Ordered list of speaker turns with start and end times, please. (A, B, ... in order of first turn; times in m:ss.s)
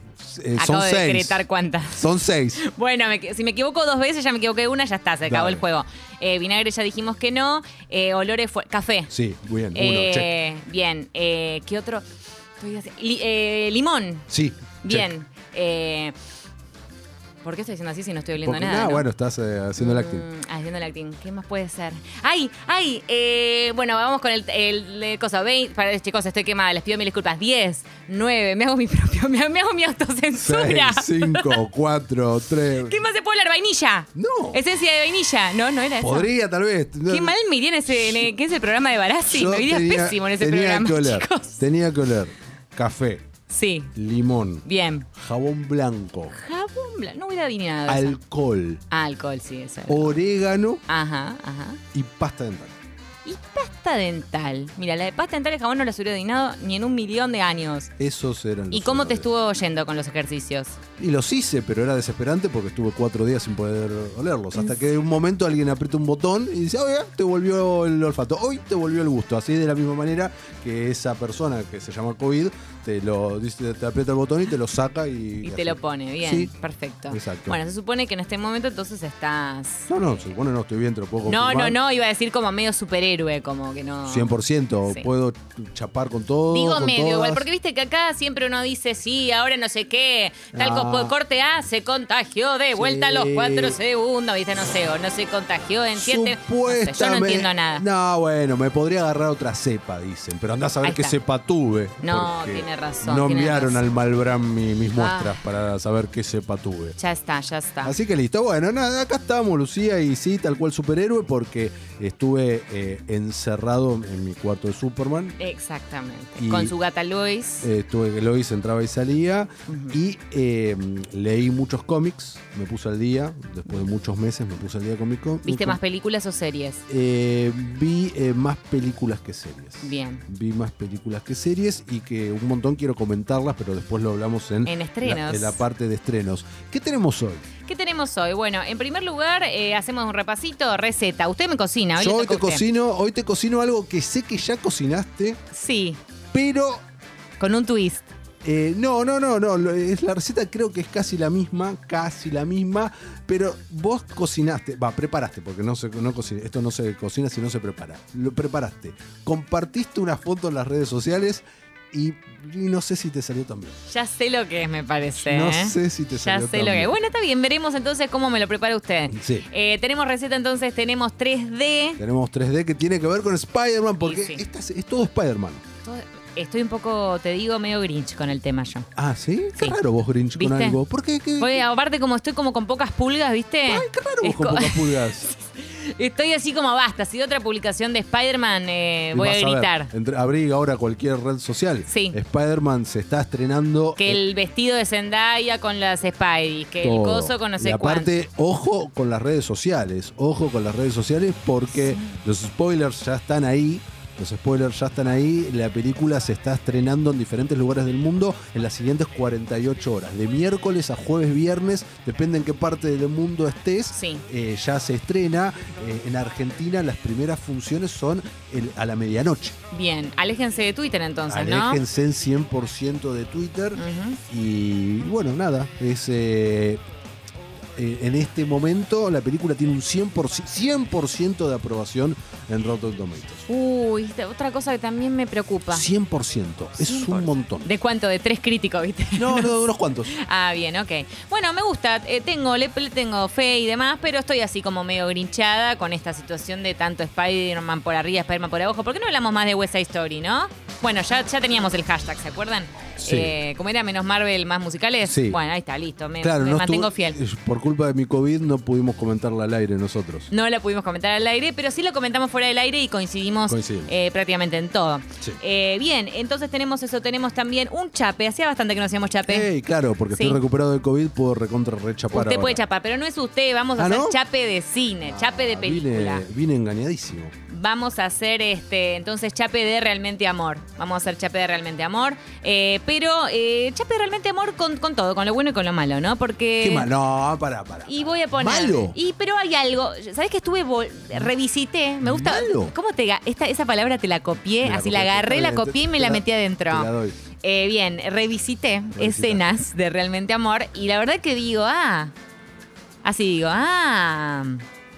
0:00.2-0:02.6 A
0:00.6-0:09.1 B
0:05.2-0:05.6 A
0:09.1-0:10.3 A
0:09.7-0:12.0 B
0:12.6-0:14.3 B
0:14.3-0:15.1 A
0:14.8-0:16.2 B
0:17.4-0:19.1 B
0:18.4-0:20.3 A
0:19.8-0:31.6 B
0:30.4-0:33.0 A
0:32.6-0:36.3 B
0:34.2-0:34.6 A
0:36.0-0:37.4 A
0:37.1-0:41.6 B
0:37.9-0:38.3 A
0:39.3-0:43.3 A
0:43.5-0:43.9 B
0:44.0-0:46.4 A
0:44.6-0:45.1 B
0:46.3-0:48.2 B
0:47.9-0:48.8 A
0:48.9-0:50.2 B
0:49.9-0:50.8 A
0:50.9-0:51.8 B
0:51.9-0:52.8 A
0:53.2-0:57.9 B
0:58.0-0:59.3 A
0:58.7-1:00.8 B
1:01.0-1:16.5 A
1:15.4-1:20.2 B
1:17.1-1:17.6 A
1:19.9-1:21.8 A
1:21.2-1:25.1 B
1:24.1-1:27.5 A
1:26.5-1:37.8 B
1:30.5-1:31.1 A
1:32.8-1:33.8 A
1:36.0-1:47.0 A
1:40.8-1:41.2 B
1:42.0-1:43.8 B
1:44.9-1:45.4 B
1:47.0-1:48.0 B
1:47.8-1:55.4 A
1:55.4-1:57.7 B
1:56.4-1:56.7 A
1:57.6-2:05.8 A
1:59.7-2:00.0 B
2:05.5-2:06.8 B
2:06.9-2:17.5 A
2:09.8-2:10.2 B
2:14.6-2:15.6 B
2:17.7-2:22.6 B
2:22.0-2:25.4 A
2:25.5-2:26.0 B
2:26.3-2:26.8 A
2:27.4-2:28.1 B
2:28.4-2:43.8 A
2:43.9-2:52.0 B
2:45.2-2:47.0 A
2:49.1-2:49.5 A
2:52.0-2:55.6 A
2:54.0-2:54.4 B
2:55.8-2:58.9 B
2:59.0-3:01.6 A
3:00.4-3:00.8 B
3:01.4-3:09.9 B
3:03.7-3:05.3 A
3:09.1-3:14.2 A
3:11.9-3:12.2 B
3:14.0-3:18.2 B
3:16.8-3:39.6 A
3:21.8-3:22.2 B
3:33.9-3:34.2 B
3:39.7-3:41.8 B
3:41.3-3:46.8 A
3:43.8-3:44.2 B
3:47.8-3:53.5 A
3:53.5-3:55.9 B
3:55.7-3:57.7 A
3:56.8-4:17.2 B
3:59.2-4:00.1 A
4:13.0-4:13.4 A
4:15.0-4:15.4 A
4:16.2-4:20.3 A
4:20.3-4:29.5 B
4:23.5-4:23.9 A
4:29.3-4:32.6 A
4:30.1-4:30.4 B
4:32.1-4:36.3 B
4:33.8-4:34.2 A
4:35.1-4:37.3 A
4:37.5-4:46.9 B
4:46.6-4:49.0 A
4:47.9-5:02.1 B
4:52.0-4:52.7 A
4:54.6-4:57.2 A
4:58.9-4:59.6 A
5:03.0-5:04.6 B